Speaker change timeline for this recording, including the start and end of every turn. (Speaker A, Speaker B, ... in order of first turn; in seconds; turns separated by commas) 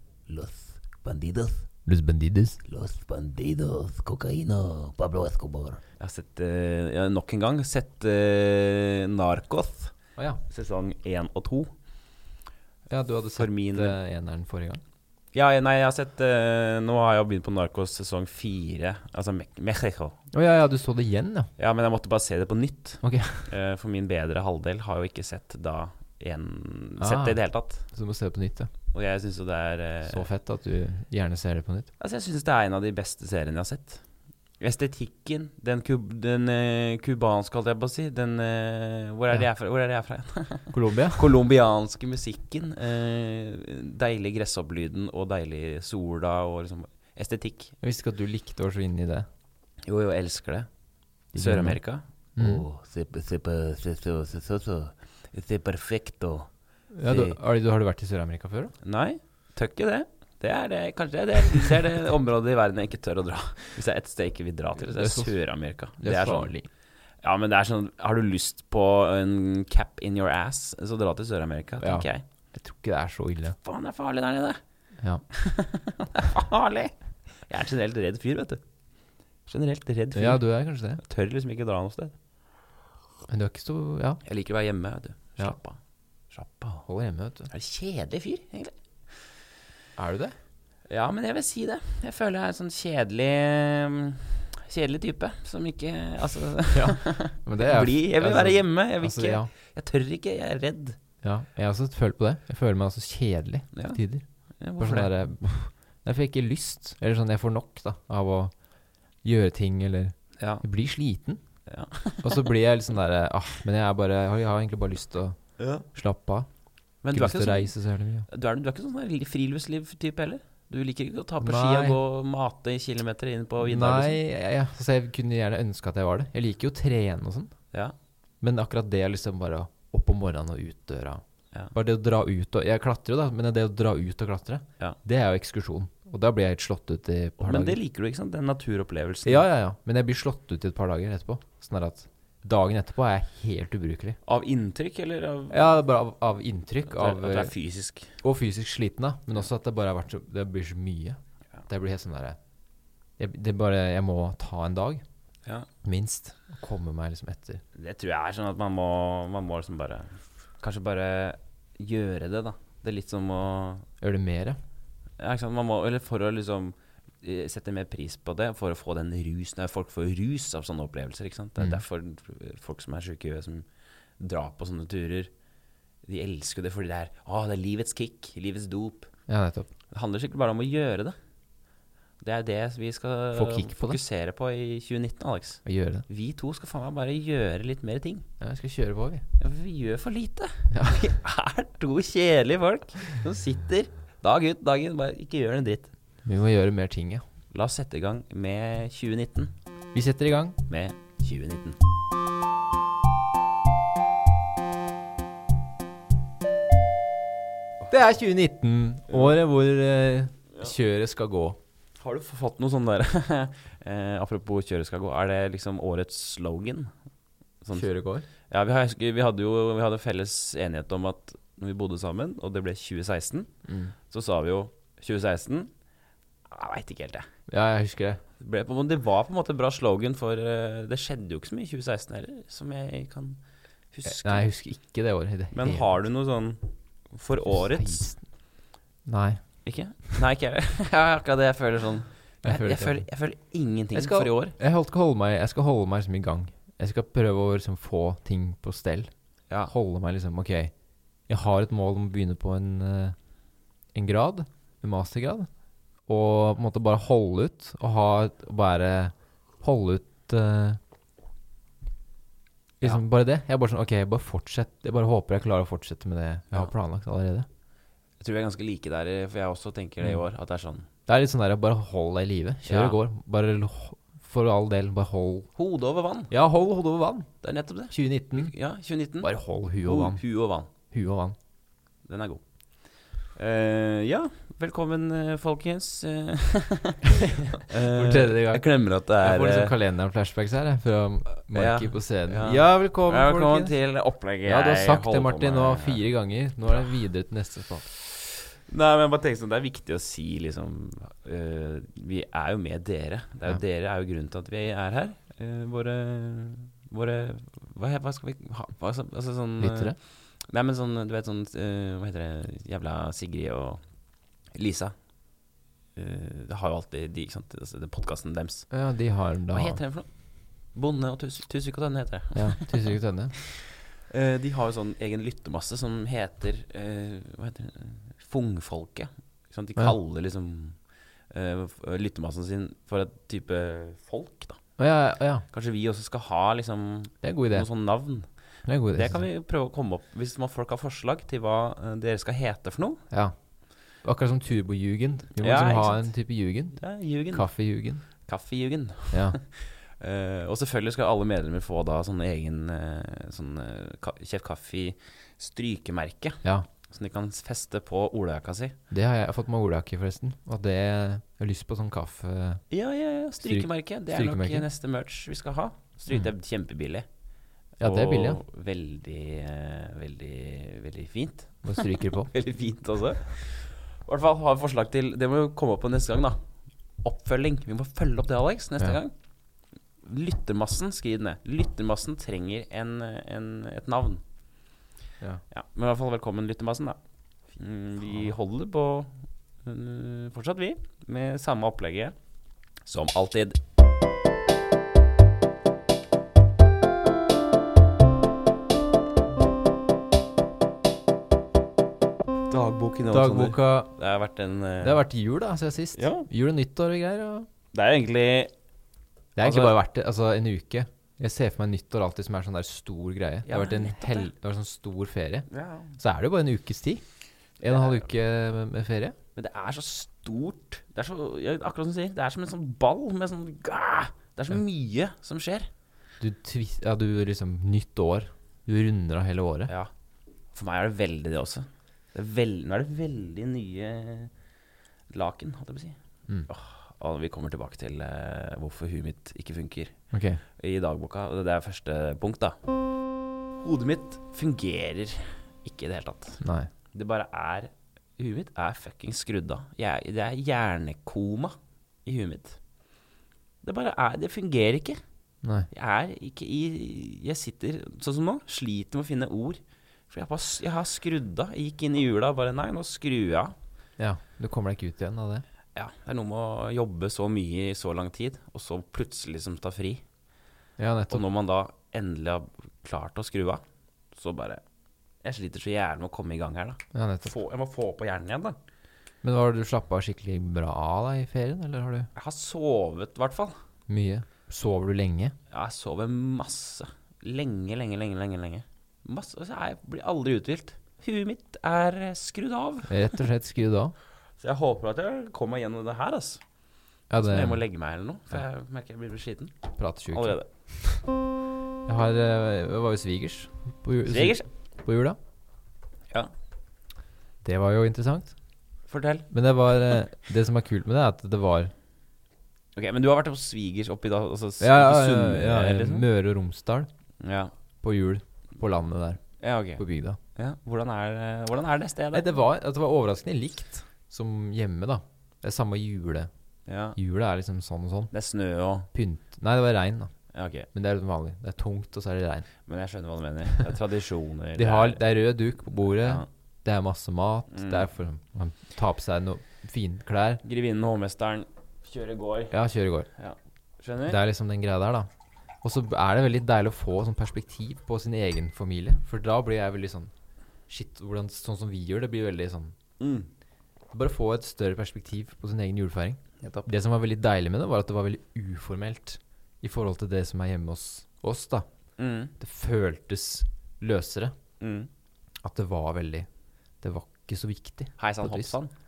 Speaker A: 0.3-1.7, Speaker B: 1.9-2.6, Speaker A: 2.6-5.8, Speaker C: 6.0-9.9, Speaker B: 10.2-10.4, Speaker C: 10.5-11.7, Speaker B: 12.9-14.8, Speaker C: 13.3-14.0, Speaker C: 15.3-20.2, Speaker B: 20.3-21.5, Speaker C: 21.6-27.8, Speaker B: 23.0-23.5, Speaker B: 27.0-28.7, Speaker C: 28.9-30.2, Speaker B: 30.1-31.9, Speaker C: 32.0-34.0, Speaker C: 34.6-47.7, Speaker B: 40.7-41.3, Speaker B: 47.8-49.3, Speaker C: 49.9-50.7, Speaker C: 51.3-52.0, Speaker B: 51.3-51.8, Speaker B: 52.4-52.6, Speaker A: 52.4-56.5, Speaker B: 56.9-58.7, Speaker C: 58.8-66.6, Speaker B: 64.9-65.4, Speaker B: 66.0-66.6, Speaker C: 67.2-72.2, Speaker B: 71.8-73.6, Speaker C: 73.6-74.6, Speaker C: 75.3-78.6, Speaker C: 79.5-80.4, Speaker B: 80.1-81.0, Speaker C: 81.0-82.1, Speaker B: 83.3-84.2, Speaker C: 84.2-85.8, Speaker C: 86.3-86.8, Speaker B: 86.8-87.5, Speaker C: 87.5-88.7, Speaker B: 90.0-90.3, Speaker C: 90.9-101.0, Speaker B: 96.7-99.5, Speaker B: 101.2-104.2, Speaker C: 103.7-104.0, Speaker C: 104.6-105.1, Speaker B: 104.8-108.5, Speaker B: 109.2-111.4, Speaker C: 110.4-110.6, Speaker C: 111.7-112.5, Speaker B: 112.2-115.4, Speaker C: 115.6-115.8, Speaker B: 115.9-116.5, Speaker C: 117.0-117.7, Speaker B: 117.1-118.3, Speaker C: 118.3-124.2, Speaker B: 121.4-122.0, Speaker B: 123.6-127.5, Speaker B: 128.4-137.8, Speaker C: 137.4-139.4, Speaker B: 139.2-144.2, Speaker C: 144.2-145.6, Speaker B: 145.5-147.5, Speaker C: 146.9-148.2, Speaker B: 148.2-152.4, Speaker B: 153.2-155.0, Speaker B: 155.8-157.6, Speaker C: 157.7-163.8, Speaker B: 164.0-164.6, Speaker C: 165.2-173.7, Speaker B: 171.6-171.8, Speaker C: 174.2-175.3, Speaker C: 176.1-179.1, Speaker B: 179.3-179.7, Speaker C: 179.9-181.2, Speaker C: 182.2-188.2, Speaker B: 183.3-184.0, Speaker B: 185.6-186.0, Speaker B: 188.4-189.2, Speaker C: 189.4-195.9, Speaker B: 190.7-191.0, Speaker B: 196.2-197.2, Speaker C: 197.5-199.5, Speaker B: 199.9-200.6, Speaker C: 200.7-201.8, Speaker B: 207.9-211.6, Speaker C: 212.0-216.9, Speaker C: 217.6-217.9, Speaker B: 217.7-218.3, Speaker C: 218.5-223.5, Speaker B: 223.7-223.9, Speaker C: 224.1-225.7, Speaker C: 226.5-227.3, Speaker B: 227.5-228.2, Speaker C: 228.4-233.4, Speaker C: 233.9-234.5, Speaker B: 234.0-235.9, Speaker C: 235.5-238.1, Speaker B: 237.4-238.2, Speaker B: 239.1-239.4, Speaker C: 239.6-244.6, Speaker B: 242.4-243.0, Speaker B: 243.9-249.1, Speaker B: 249.7-250.7, Speaker B: 251.3-253.2, Speaker B: 253.9-255.5, Speaker B: 256.1-260.8, Speaker B: 262.8-267.5, Speaker C: 268.2-270.9, Speaker B: 271.1-275.5, Speaker C: 272.7-273.0, Speaker C: 275.6-276.3, Speaker B: 276.3-277.3, Speaker C: 277.4-280.7, Speaker B: 277.9-278.5, Speaker B: 279.2-280.2, Speaker B: 280.9-281.4, Speaker C: 282.1-282.4, Speaker C: 283.3-289.7, Speaker B: 287.7-293.7, Speaker C: 291.4-296.0, Speaker B: 294.4-297.9, Speaker C: 297.9-310.0, Speaker B: 309.6-309.9, Speaker C: 310.5-313.8, Speaker C: 314.5-314.9, Speaker C: 315.9-318.7, Speaker B: 318.7-319.8, Speaker C: 319.5-320.1, Speaker C: 320.7-322.9, Speaker B: 322.3-323.3, Speaker C: 323.5-330.8, Speaker C: 331.3-334.6, Speaker B: 334.8-335.4, Speaker C: 335.5-338.3, Speaker B: 337.2-337.7, Speaker B: 338.6-339.2, Speaker C: 338.9-343.0, Speaker B: 344.0-348.0, Speaker C: 345.4-346.1, Speaker C: 346.7-347.5, Speaker C: 348.2-358.8, Speaker B: 349.1-349.4, Speaker B: 358.9-362.6, Speaker C: 362.7-367.1, Speaker B: 363.4-364.7, Speaker C: 367.8-376.4, Speaker B: 367.8-368.4, Speaker B: 371.6-372.3, Speaker C: 377.0-379.1, Speaker C: 380.0-384.2, Speaker C: 385.5-387.0, Speaker C: 387.6-392.1, Speaker C: 392.9-393.6, Speaker C: 402.5-405.0, Speaker B: 403.1-403.9, Speaker B: 404.8-407.5, Speaker C: 405.9-406.3, Speaker C: 407.7-408.5, Speaker B: 409.4-417.0, Speaker C: 409.4-409.7, Speaker C: 413.4-414.3, Speaker C: 415.5-415.9, Speaker B: 417.6-419.1, Speaker C: 417.7-418.0, Speaker C: 419.4-425.7, Speaker B: 426.2-429.7, Speaker C: 430.5-434.3, Speaker C: 435.1-439.9, Speaker B: 440.1-440.4, Speaker C: 440.6-442.6, Speaker C: 443.6-446.4, Speaker B: 446.4-446.7, Speaker C: 446.9-452.6, Speaker C: 453.6-455.0, Speaker B: 455.4-455.7, Speaker C: 455.7-463.5, Speaker B: 464.0-465.4, Speaker C: 465.7-470.0, Speaker B: 470.8-471.2, Speaker C: 471.1-473.6, Speaker C: 474.1-474.6, Speaker C: 475.2-478.6, Speaker B: 476.9-477.3, Speaker B: 479.2-482.1, Speaker C: 482.1-483.6, Speaker B: 483.9-485.3, Speaker C: 485.5-493.2, Speaker B: 492.9-493.9, Speaker C: 494.4-496.4, Speaker B: 497.1-497.6, Speaker C: 497.2-499.6, Speaker B: 499.8-500.4, Speaker C: 500.1-500.5, Speaker B: 501.9-505.2, Speaker C: 504.1-504.5, Speaker B: 507.4-508.3, Speaker C: 508.9-509.3, Speaker B: 509.3-511.7, Speaker C: 512.7-516.1, Speaker B: 514.6-516.9, Speaker C: 517.2-517.5, Speaker B: 517.8-519.2, Speaker C: 519.4-519.8, Speaker B: 519.8-520.2, Speaker C: 520.3-522.3, Speaker B: 522.1-526.3, Speaker C: 526.7-527.0, Speaker B: 527.0-528.1, Speaker C: 528.1-528.9, Speaker B: 528.9-530.1, Speaker C: 530.3-530.7, Speaker B: 530.7-532.5, Speaker C: 532.7-535.0, Speaker B: 534.5-540.4, Speaker C: 535.8-536.3, Speaker C: 537.5-537.9, Speaker C: 540.4-542.5, Speaker B: 542.5-543.1, Speaker C: 543.1-544.2, Speaker B: 544.1-545.1, Speaker B: 545.6-550.1, Speaker B: 550.7-552.8, Speaker C: 553.0-553.3, Speaker B: 553.9-561.7, Speaker C: 556.4-556.7, Speaker C: 562.0-562.3, Speaker B: 562.4-564.3, Speaker C: 564.6-564.9, Speaker B: 565.4-566.3, Speaker B: 566.8-568.5, Speaker C: 568.0-568.7